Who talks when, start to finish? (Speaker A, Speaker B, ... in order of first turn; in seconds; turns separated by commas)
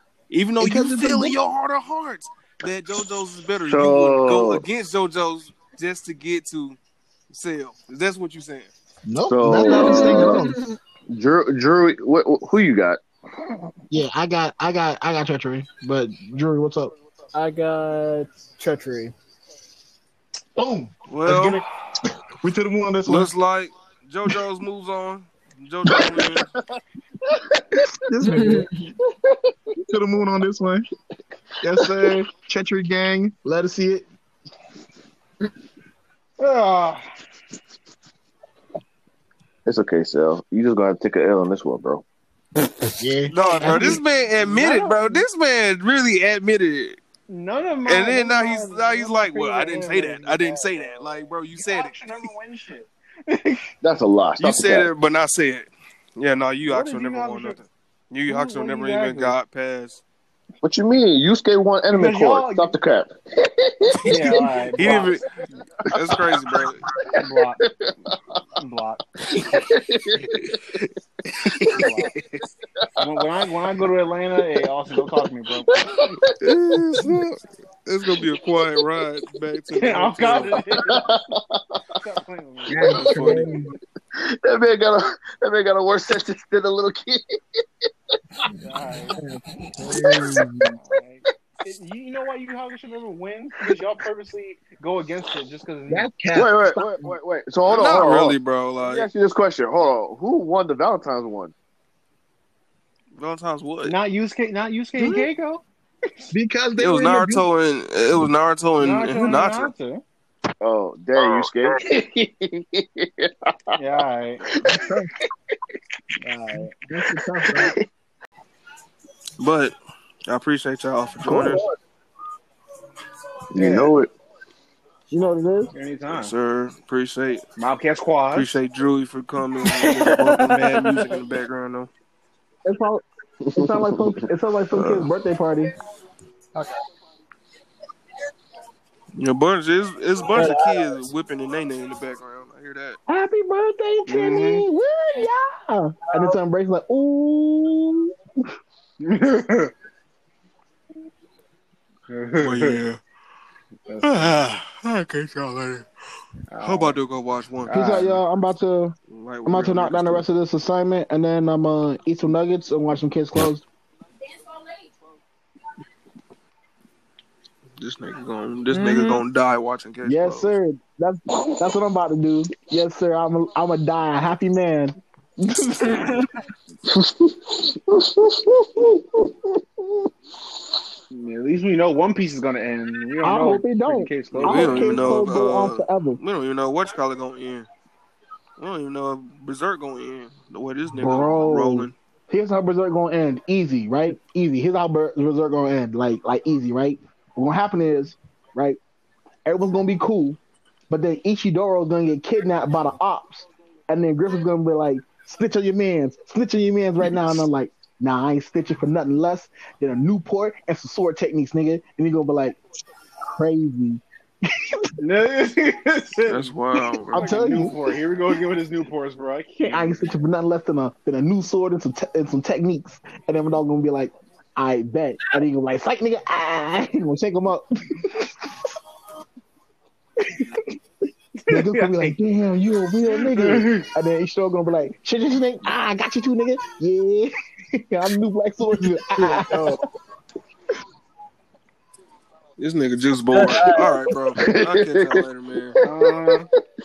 Speaker A: 0.3-6.8, Speaker B: 0.6-1.4, Speaker C: 3.6-4.7, Speaker A: 7.3-8.7, Speaker B: 9.1-10.6, Speaker C: 9.2-10.5, Speaker D: 9.7-10.6, Speaker C: 11.1-13.0, Speaker B: 13.9-16.9, Speaker D: 17.4-19.1, Speaker B: 20.6-21.7, Speaker A: 21.1-21.6, Speaker B: 22.4-23.3, Speaker A: 23.1-26.5, Speaker C: 25.9-26.7, Speaker B: 27.8-28.7, Speaker D: 28.2-28.8, Speaker B: 29.8-30.9, Speaker B: 31.6-34.0, Speaker C: 31.8-32.1, Speaker E: 36.4-37.0, Speaker C: 39.7-42.0, Speaker B: 43.0-44.0, Speaker A: 43.3-47.0, Speaker E: 43.3-45.3, Speaker E: 47.3-53.7, Speaker A: 47.9-52.3, Speaker C: 53.8-54.9, Speaker A: 54.4-60.0, Speaker E: 56.7-57.6, Speaker E: 58.3-59.4, Speaker C: 60.6-64.9, Speaker E: 61.9-62.7, Speaker E: 64.1-65.6, Speaker A: 64.7-65.2, Speaker A: 65.9-66.8, Speaker C: 66.0-66.7, Speaker E: 67.2-67.6, Speaker C: 67.2-68.4, Speaker E: 68.6-69.0, Speaker C: 69.4-70.6, Speaker C: 71.4-72.1, Speaker E: 71.7-72.2, Speaker E: 73.0-75.7, Speaker C: 75.7-76.2, Speaker A: 76.4-80.6, Speaker E: 79.7-81.3, Speaker C: 80.8-81.6, Speaker E: 81.9-83.5, Speaker B: 82.7-83.8, Speaker A: 82.8-83.5, Speaker C: 82.8-83.5, Speaker C: 84.2-87.4, Speaker E: 88.6-89.2, Speaker B: 89.2-90.8, Speaker E: 90.6-96.1, Speaker B: 95.9-97.1, Speaker C: 96.3-101.5, Speaker A: 97.7-99.1, Speaker A: 103.2-104.0, Speaker E: 103.8-105.6, Speaker B: 105.0-105.3, Speaker B: 106.3-107.5, Speaker A: 106.8-109.7, Speaker E: 108.8-110.0, Speaker C: 110.6-113.8, Speaker E: 113.8-114.5, Speaker B: 114.6-115.1, Speaker E: 116.2-116.8, Speaker B: 116.9-117.8, Speaker C: 117.5-117.8, Speaker A: 119.4-119.7, Speaker A: 120.3-121.6, Speaker C: 121.2-121.7, Speaker B: 121.3-121.6, Speaker C: 123.5-124.1, Speaker E: 123.6-123.9, Speaker B: 125.1-125.7, Speaker E: 125.7-126.3, Speaker A: 126.1-127.5, Speaker E: 127.6-128.6, Speaker A: 128.3-131.9, Speaker E: 129.7-131.2, Speaker B: 132.7-135.7, Speaker C: 133.5-135.1, Speaker A: 139.2-143.0, Speaker D: 140.3-140.7, Speaker B: 143.1-148.1, Speaker E: 144.1-144.7, Speaker E: 149.0-149.7, Speaker E: 152.1-152.8, Speaker A: 152.4-153.0, Speaker E: 153.9-154.4, Speaker A: 154.0-155.9, Speaker E: 156.5-157.0, Speaker A: 156.6-157.7, Speaker E: 157.6-158.2, Speaker B: 157.7-158.9, Speaker A: 159.1-160.3, Speaker B: 159.5-163.7, Speaker A: 167.8-170.5, Speaker D: 168.8-169.2, Speaker B: 170.0-176.3, Speaker C: 176.9-178.9, Speaker E: 181.1-185.3, Speaker B: 183.2-186.2, Speaker A: 184.3-187.7, Speaker A: 188.6-191.9, Speaker B: 190.9-198.8, Speaker B: 199.5-200.4, Speaker B: 200.9-212.6, Speaker B: 213.3-214.9, Speaker E: 215.0-220.2, Speaker A: 216.3-217.4, Speaker B: 217.1-217.8, Speaker B: 219.6-228.6, Speaker E: 231.5-232.2, Speaker B: 231.5-239.8, Speaker E: 233.1-233.9, Speaker A: 242.6-245.8, Speaker D: 243.3-243.9, Speaker C: 244.4-246.5, Speaker E: 245.8-246.5